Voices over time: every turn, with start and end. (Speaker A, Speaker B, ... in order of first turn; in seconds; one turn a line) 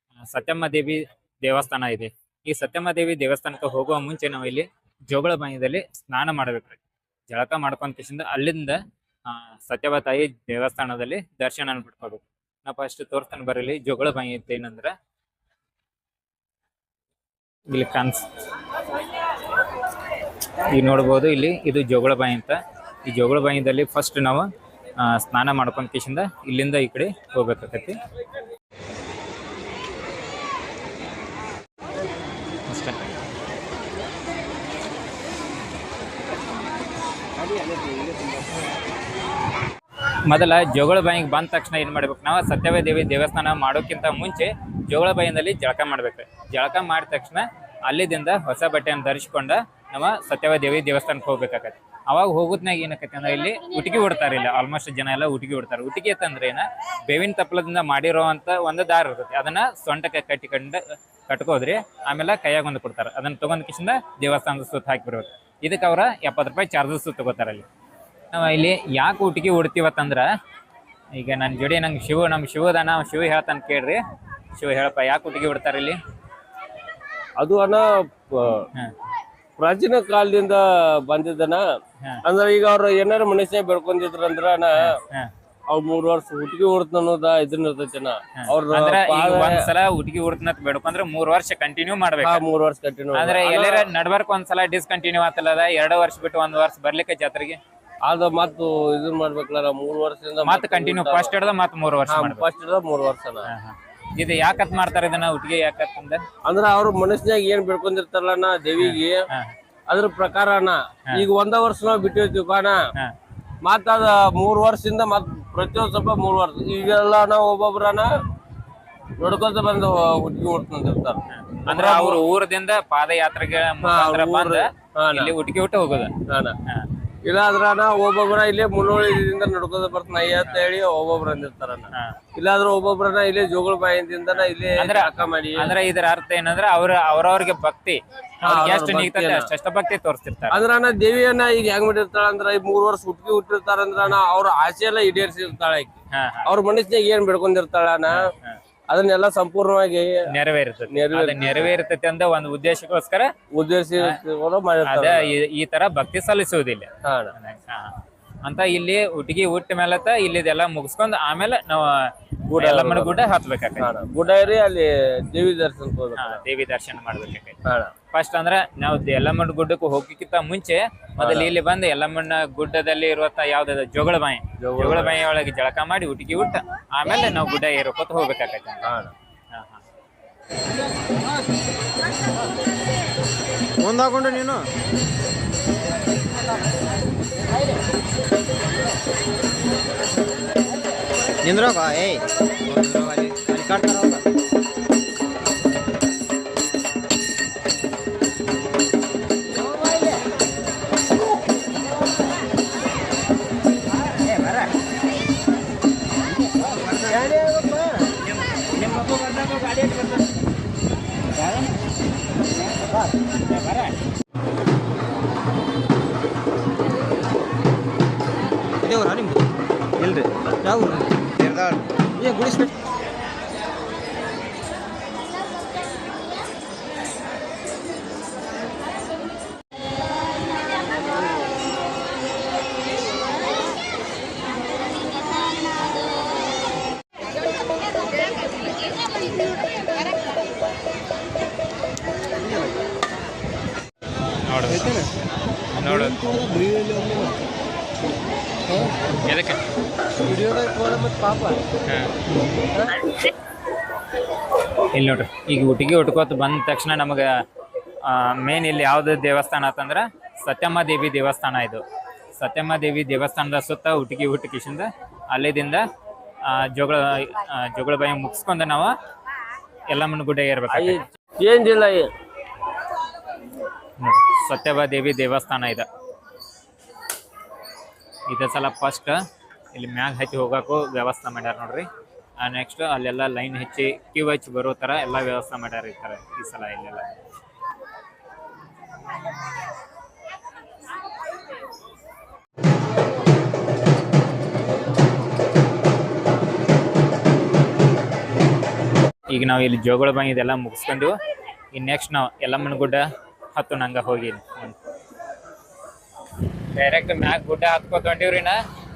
Speaker A: 0.3-14.9
Speaker A: 17.7-18.2
Speaker A: 20.6-24.5
Speaker A: 25.0-28.0
Speaker A: 32.7-33.0
Speaker A: 40.3-67.7
Speaker A: 68.3-70.3
Speaker A: 71.1-74.0
Speaker A: 74.6-76.0
Speaker B: 77.4-78.7
Speaker B: 79.6-81.6
Speaker B: 82.2-85.0
Speaker A: 84.8-85.3
Speaker B: 85.7-89.7
Speaker A: 88.4-92.4
Speaker B: 92.2-93.9
Speaker A: 93.1-97.6
Speaker B: 98.0-101.3
Speaker A: 100.4-102.5
Speaker B: 102.1-103.5
Speaker A: 103.5-106.2
Speaker B: 106.5-109.2
Speaker A: 108.8-109.5
Speaker B: 109.9-112.8
Speaker B: 113.6-118.1
Speaker B: 119.2-122.2
Speaker A: 121.3-126.9
Speaker B: 123.8-125.3
Speaker B: 126.3-126.6
Speaker B: 127.2-135.8
Speaker A: 131.9-132.2
Speaker A: 134.3-140.6
Speaker B: 138.4-139.5
Speaker B: 140.5-148.3
Speaker A: 146.1-146.5
Speaker A: 148.1-148.6
Speaker B: 148.9-150.2
Speaker A: 150.3-153.3
Speaker B: 150.9-151.7
Speaker B: 153.5-155.3
Speaker A: 154.8-164.4
Speaker B: 157.1-157.3
Speaker B: 162.6-163.3
Speaker B: 163.8-166.4
Speaker A: 166.2-167.6
Speaker B: 167.7-167.9
Speaker A: 168.1-178.9
Speaker B: 171.2-171.6
Speaker B: 174.6-175.2
Speaker B: 178.8-179.1
Speaker A: 179.5-179.8
Speaker C: 183.8-184.7
Speaker C: 191.4-194.2
Speaker C: 206.8-207.9
Speaker B: 207.2-208.0
Speaker C: 218.8-222.7
Speaker A: 244.4-245.1
Speaker A: 245.7-246.2
Speaker C: 246.4-247.3
Speaker A: 249.2-249.6
Speaker C: 250.2-251.6
Speaker A: 251.9-252.1
Speaker A: 254.9-257.3
Speaker A: 258.0-261.8
Speaker A: 262.4-265.8
Speaker A: 266.5-268.9
Speaker A: 269.9-271.1
Speaker B: 270.7-272.1
Speaker A: 274.0-275.9
Speaker A: 278.3-279.2
Speaker A: 279.7-281.9
Speaker A: 282.4-287.1
Speaker A: 299.3-301.1
Speaker A: 301.7-304.8
Speaker A: 306.7-308.6